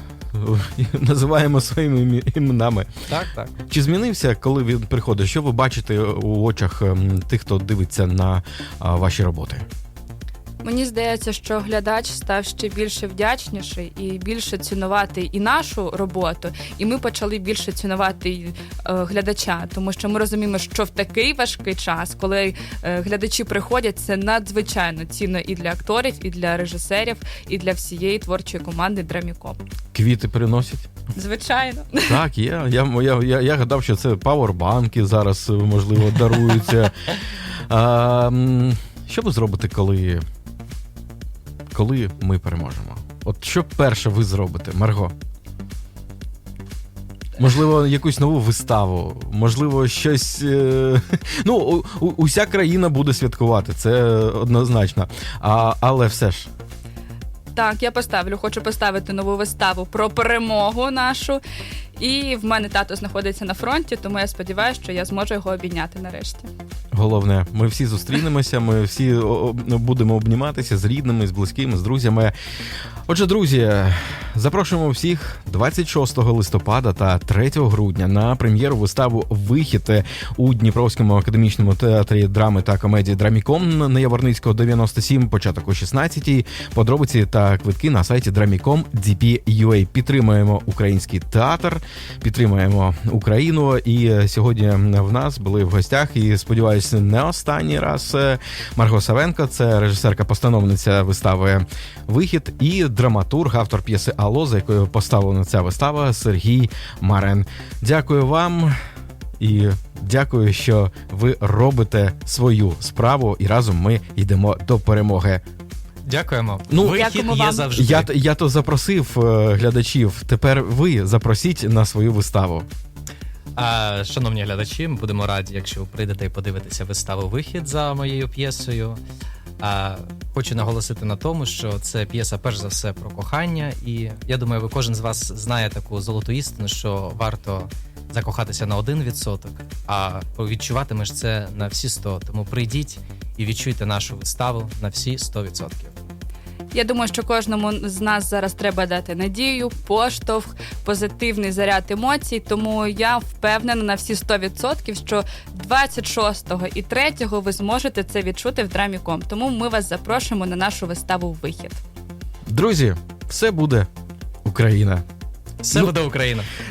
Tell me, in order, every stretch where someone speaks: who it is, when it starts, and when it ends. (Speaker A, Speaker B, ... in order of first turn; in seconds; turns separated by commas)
Speaker A: 0.3-2.9, Speaker B: 3.1-3.5, Speaker A: 3.6-9.6, Speaker C: 10.6-29.6, Speaker A: 29.9-30.9, Speaker C: 31.1-32.2, Speaker A: 32.0-37.0, Speaker A: 37.7-40.2, Speaker A: 41.7-45.1, Speaker A: 47.4-56.5, Speaker C: 57.5-61.4, Speaker C: 62.0-66.5, Speaker A: 66.9-72.3, Speaker A: 73.1-108.8, Speaker A: 109.4-115.4, Speaker B: 116.0-118.1, Speaker A: 116.7-117.1, Speaker C: 116.8-117.7, Speaker A: 117.7-122.7, Speaker B: 123.5-129.0, Speaker B: 129.6-145.9, Speaker C: 146.7-161.8, Speaker A: 162.5-163.9, Speaker A: 164.4-165.0, Speaker B: 165.6-166.5